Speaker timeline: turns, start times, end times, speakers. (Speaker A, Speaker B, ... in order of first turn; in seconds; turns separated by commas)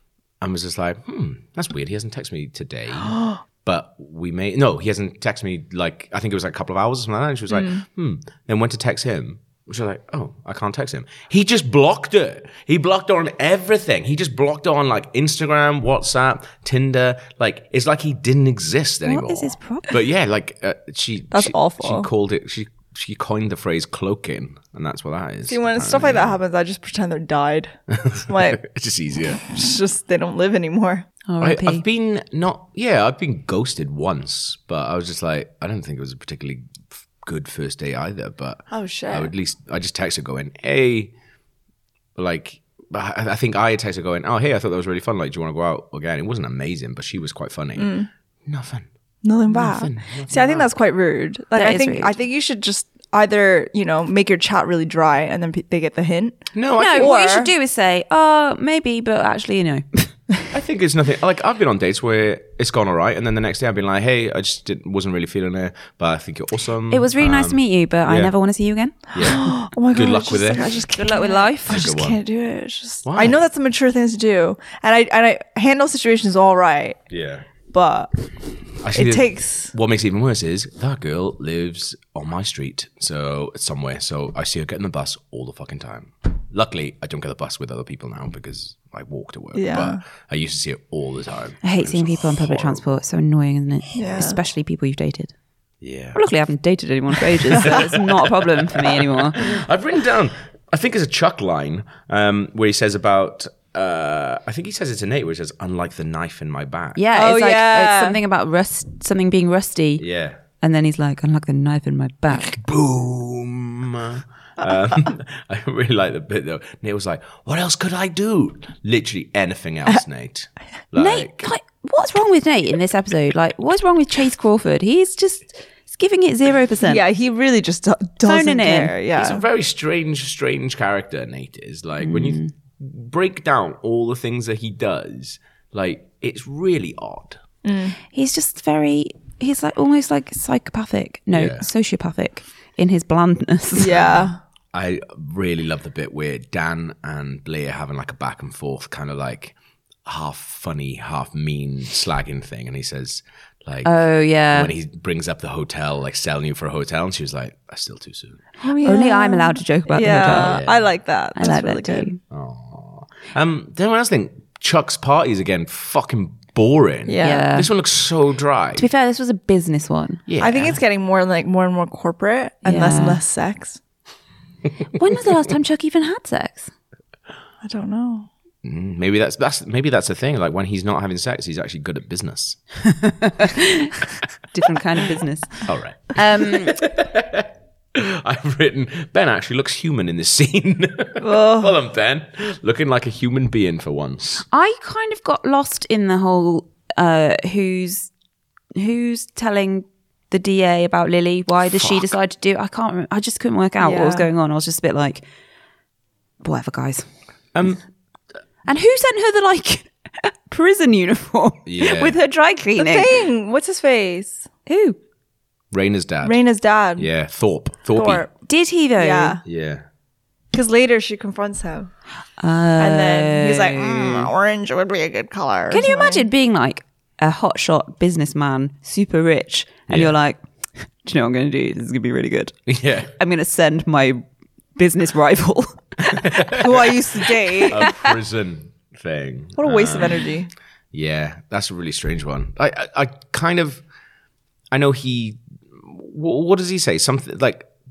Speaker A: 0.4-26.4, Speaker B: 3.0-3.4, Speaker B: 7.5-7.8, Speaker C: 19.0-20.0, Speaker B: 21.3-22.1, Speaker B: 25.5-27.8, Speaker A: 27.9-29.4, Speaker B: 28.2-28.6, Speaker B: 29.4-31.1, Speaker C: 31.3-31.8, Speaker A: 31.4-41.1, Speaker B: 38.7-39.3, Speaker A: 42.1-47.9, Speaker B: 47.8-48.1, Speaker A: 48.5-48.9, Speaker B: 49.2-57.5, Speaker A: 49.5-50.7, Speaker C: 51.5-52.1, Speaker A: 56.5-57.1, Speaker C: 56.8-60.1, Speaker A: 60.5-68.3, Speaker C: 66.9-69.0, Speaker A: 69.1-70.8, Speaker B: 69.2-77.0, Speaker C: 70.9-71.9, Speaker A: 71.7-72.2, Speaker A: 73.0-73.4, Speaker A: 77.1-77.4, Speaker B: 77.7-78.1, Speaker A: 78.8-92.8, Speaker B: 78.9-79.7, Speaker B: 89.5-90.0, Speaker C: 91.6-95.3, Speaker B: 94.0-94.4, Speaker A: 95.8-96.2, Speaker C: 96.1-99.4, Speaker A: 97.5-107.0, Speaker C: 107.0-110.0, Speaker B: 107.1-108.2, Speaker A: 110.0-110.4, Speaker C: 110.6-112.5, Speaker A: 112.3-121.5, Speaker C: 121.0-127.0, Speaker B: 126.8-129.4, Speaker C: 128.2-128.9, Speaker A: 129.1-137.4, Speaker C: 132.0-132.5, Speaker B: 137.6-138.0, Speaker C: 138.1-144.1, Speaker A: 141.3-141.7, Speaker B: 143.8-144.4, Speaker A: 144.7-158.4, Speaker C: 153.8-154.7, Speaker B: 158.6-162.1, Speaker C: 158.8-160.6, Speaker A: 160.1-160.9, Speaker C: 161.3-162.2, Speaker A: 162.3-168.9, Speaker B: 167.1-167.4, Speaker C: 167.2-167.7, Speaker C: 168.8-170.2, Speaker A: 170.3-170.8, Speaker B: 170.4-173.8, Speaker C: 172.6-173.2, Speaker C: 174.9-176.7, Speaker B: 177.6-178.3, Speaker A: 178.6-182.6, Speaker C: 183.0-183.9, Speaker C: 184.5-186.8, Speaker A: 185.6-194.4, Speaker B: 191.2-191.7, Speaker C: 194.5-198.1, Speaker C: 198.8-205.2, Speaker A: 201.7-202.1, Speaker B: 203.8-204.3, Speaker C: 206.4-207.1, Speaker A: 207.5-207.8, Speaker C: 208.7-213.1, Speaker A: 211.7-212.2, Speaker B: 212.8-214.5, Speaker C: 214.7-215.0, Speaker A: 215.7-216.4, Speaker B: 216.2-217.1, Speaker A: 217.0-218.2, Speaker B: 217.9-218.3, Speaker C: 218.4-219.4, Speaker B: 219.0-219.4, Speaker A: 219.4-219.8, Speaker B: 220.5-221.9, Speaker C: 222.4-224.3, Speaker B: 222.8-226.2, Speaker C: 225.7-234.2, Speaker A: 232.7-233.1, Speaker C: 234.8-236.6, Speaker A: 236.1-237.0, Speaker B: 236.6-237.9, Speaker A: 237.7-240.2, Speaker C: 237.8-238.1, Speaker B: 239.6-240.5, Speaker A: 240.9-243.8, Speaker A: 244.7-247.7